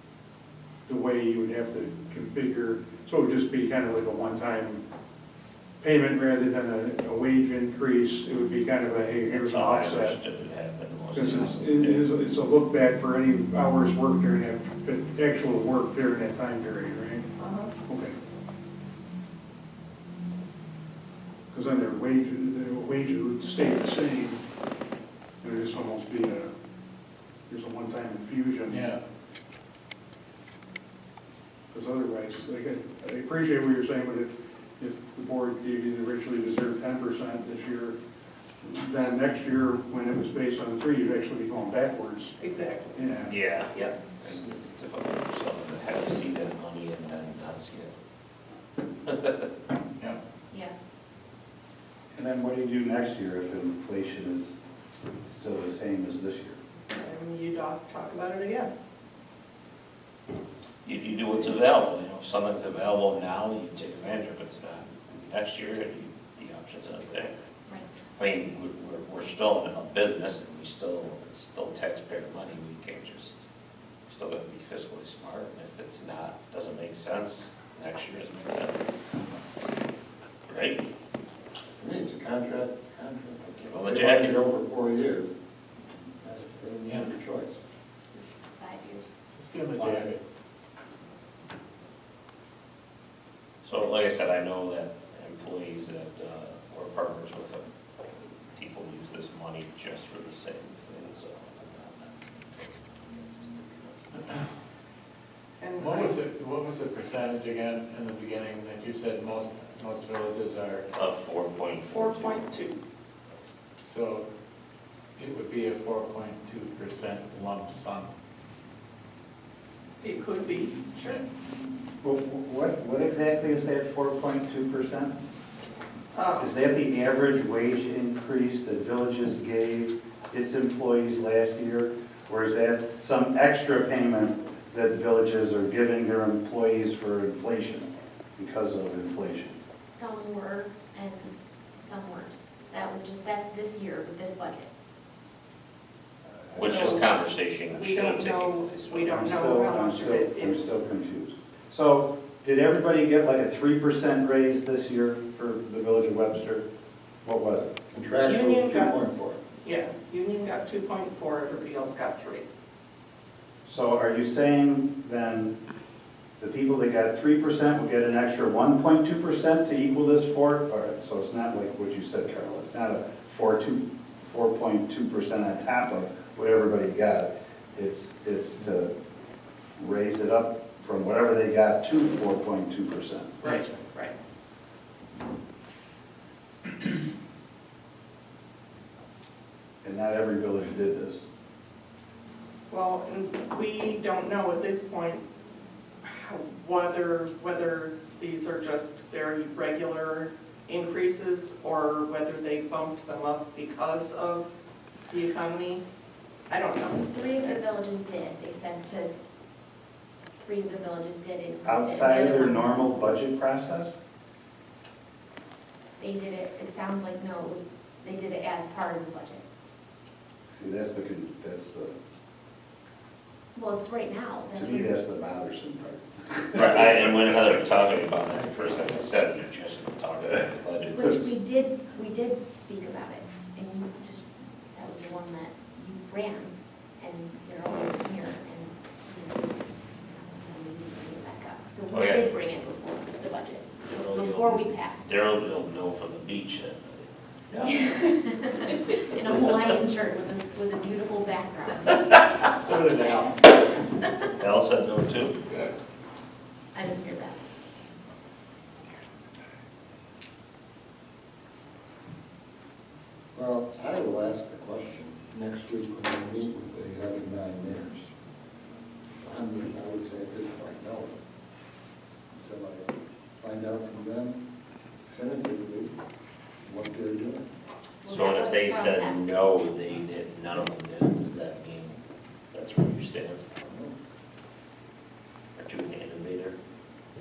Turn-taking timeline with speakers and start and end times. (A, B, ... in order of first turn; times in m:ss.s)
0:00.9-0:04.8 A
0:05.8-0:10.2 A
0:09.2-0:12.0 B
0:11.1-0:17.3 A
0:17.4-0:17.7 C
0:17.9-0:18.1 A
0:21.5-0:24.4 A
0:25.4-0:26.5 A
0:27.5-0:28.9 A
0:28.7-0:29.0 D
0:31.7-0:38.0 A
0:38.6-0:42.4 A
0:42.4-0:43.0 C
0:42.9-0:43.3 A
0:43.3-0:47.9 B
0:49.0-0:49.5 B
0:52.1-0:54.6 E
0:55.2-0:56.6 E
0:56.9-0:58.7 C
1:00.8-1:07.3 B
1:08.2-1:13.4 B
1:14.1-1:19.2 B
1:20.5-1:20.8 B
1:21.8-1:25.3 F
1:23.7-1:24.4 B
1:26.2-1:27.6 F
1:26.8-1:27.1 D
1:28.1-1:29.1 G
1:29.4-1:30.2 D
1:29.8-1:30.0 E
1:33.6-1:37.6 B
1:38.5-1:44.3 B
1:44.1-1:44.4 D
1:45.6-1:46.2 C
1:45.8-1:50.9 D
1:50.9-1:52.4 B
1:51.9-1:52.8 C
1:53.8-1:54.2 D
1:55.2-1:58.1 D
2:00.0-2:01.2 C
2:02.0-2:05.1 E
2:06.1-2:06.5 C
2:06.4-2:19.6 E
2:19.8-2:24.7 G
2:26.5-2:27.0 E
2:26.5-2:29.3 B
2:27.7-2:30.8 C
2:29.1-2:36.6 E
2:37.2-2:37.9 E
2:37.9-2:39.4 F
2:38.2-2:39.0 C
2:39.6-2:42.4 C
2:43.6-2:45.6 E
2:46.4-2:58.9 E
2:59.8-3:03.6 E
3:03.4-3:04.1 C
3:09.8-3:11.2 E
3:12.7-3:15.2 C
3:16.0-3:24.5 C
3:25.1-3:25.8 C
3:26.5-3:27.6 C
3:27.0-3:29.1 G
3:30.4-3:33.0 G
3:31.6-3:33.9 E
3:36.0-3:39.4 G
3:40.5-3:41.9 E
3:43.5-3:45.0 G
3:44.5-3:47.4 E
3:46.5-3:51.3 B
3:50.9-4:05.1 G
4:01.9-4:02.3 B
4:03.8-4:08.0 B
4:07.5-4:12.2 G
4:12.6-4:13.4 D
4:13.4-4:14.1 G
4:14.4-4:15.4 B
4:15.5-4:15.7 D
4:16.7-4:17.4 G
4:23.3-4:28.1 F
4:29.2-4:31.2 F
4:32.4-4:34.4 F
4:35.1-4:36.0 F
4:36.6-4:37.5 F
4:38.0-4:39.3 G
4:38.1-4:42.0 B
4:42.5-4:43.4 B
4:43.6-4:43.9 F
4:45.6-4:46.6 B